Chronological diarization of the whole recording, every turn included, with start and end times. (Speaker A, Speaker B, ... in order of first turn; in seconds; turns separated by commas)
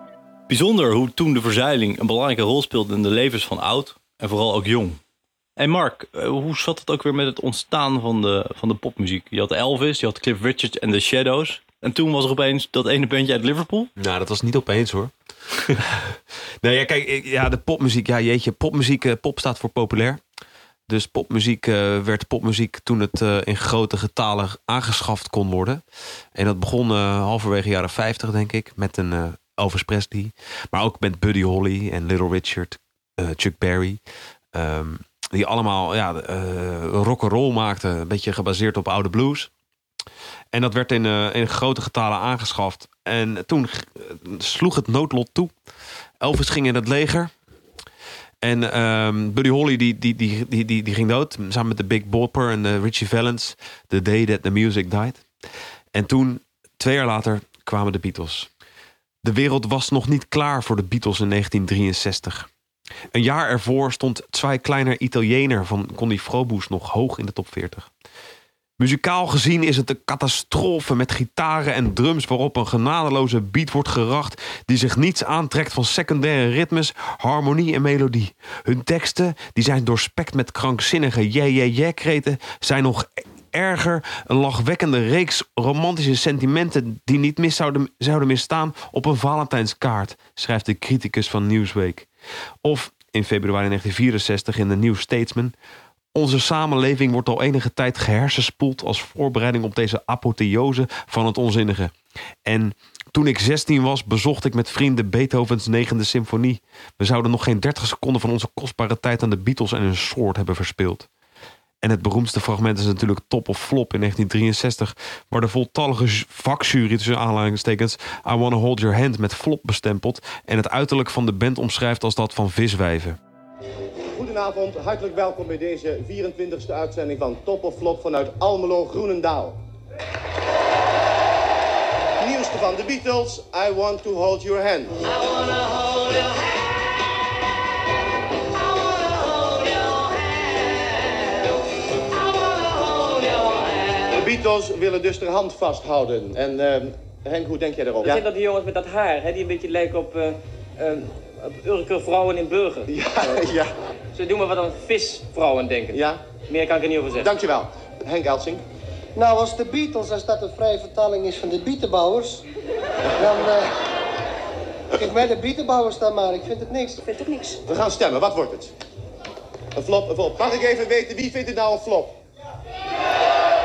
Speaker A: 0.5-5.0, Speaker A: 5.6-13.9, Speaker B: 14.0-20.2, Speaker B: 20.9-25.8, Speaker B: 26.3-34.0, Speaker B: 34.5-39.5, Speaker B: 40.5-45.5, Speaker B: 46.2-47.3, Speaker B: 48.4-55.3, Speaker B: 55.9-58.5, Speaker B: 59.2-62.5, Speaker B: 63.1-67.9, Speaker B: 68.8-92.1, Speaker B: 92.6-95.5, Speaker B: 96.1-111.1, Speaker B: 111.8-123.2, Speaker C: 124.1-129.6, Speaker C: 132.2-135.1, Speaker C: 144.1-148.2, Speaker D: 148.0-153.5, Speaker C: 152.9-153.7, Speaker D: 154.1-157.3, Speaker C: 155.9-156.2, Speaker C: 157.2-158.6, Speaker E: 159.2-162.5, Speaker E: 163.2-163.7, Speaker E: 164.9-167.0, Speaker D: 167.0-167.6, Speaker C: 167.7-168.7, Speaker C: 169.7-172.2